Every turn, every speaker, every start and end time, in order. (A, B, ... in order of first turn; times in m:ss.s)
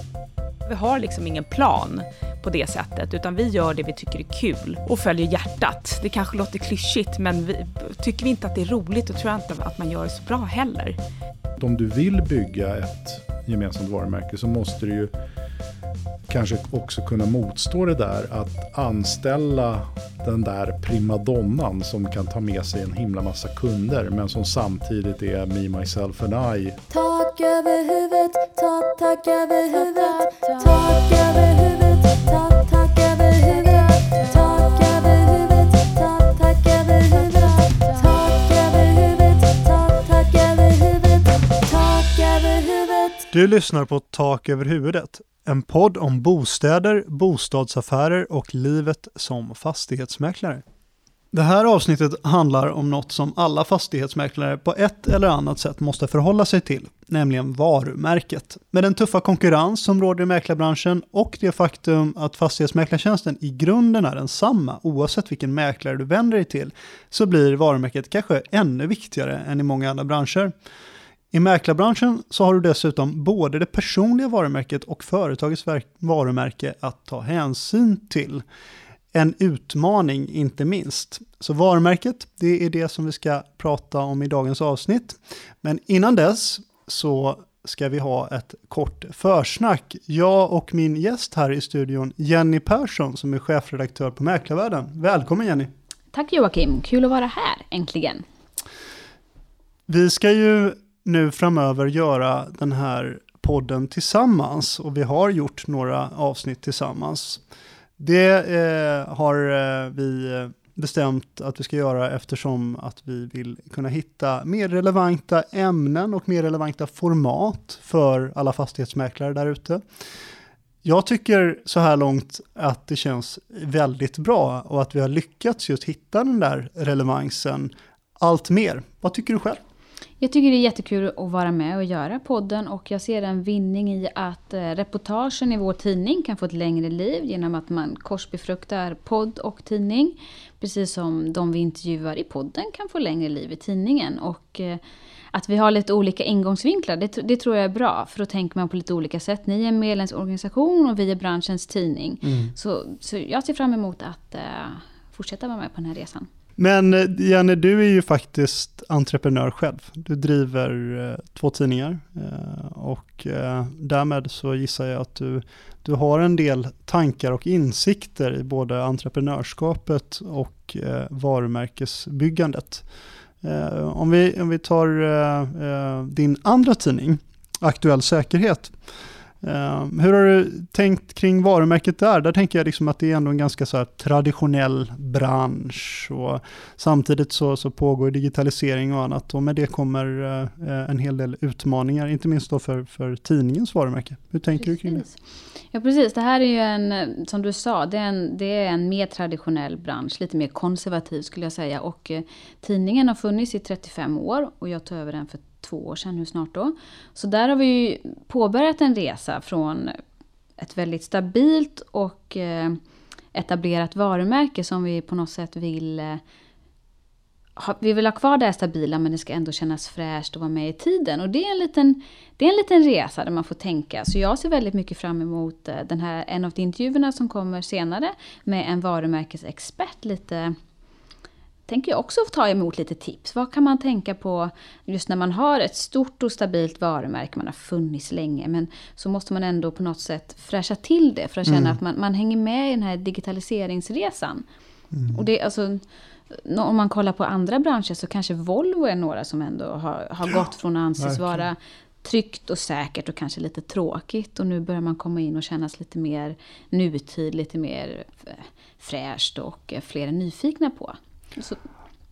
0:00.7-0:11.0 A
0:11.6-0:15.1 B
0:16.3-0:26.8 B
0:26.9-0:43.3 C
0:43.3-0:50.6 D
0:51.3-1:10.5 D
1:11.3-1:18.4 D
1:19.1-1:35.7 D
1:36.1-1:38.2 E
1:39.9-1:47.4 D
1:48.0-1:59.8 D
2:00.8-2:09.6 D
2:10.2-2:36.3 E
2:32.2-2:32.5 D
2:36.6-2:52.9 D
2:53.4-2:58.8 D
2:59.4-3:15.1 D
3:14.6-3:15.1 E
3:15.7-3:30.0 E
3:30.6-3:32.8 E
3:33.3-3:36.2 E
3:37.6-3:50.6 E
3:51.7-4:04.5 E
4:01.5-4:01.8 D
4:04.9-4:05.2 D
4:05.1-4:21.6 E
4:11.0-4:11.4 D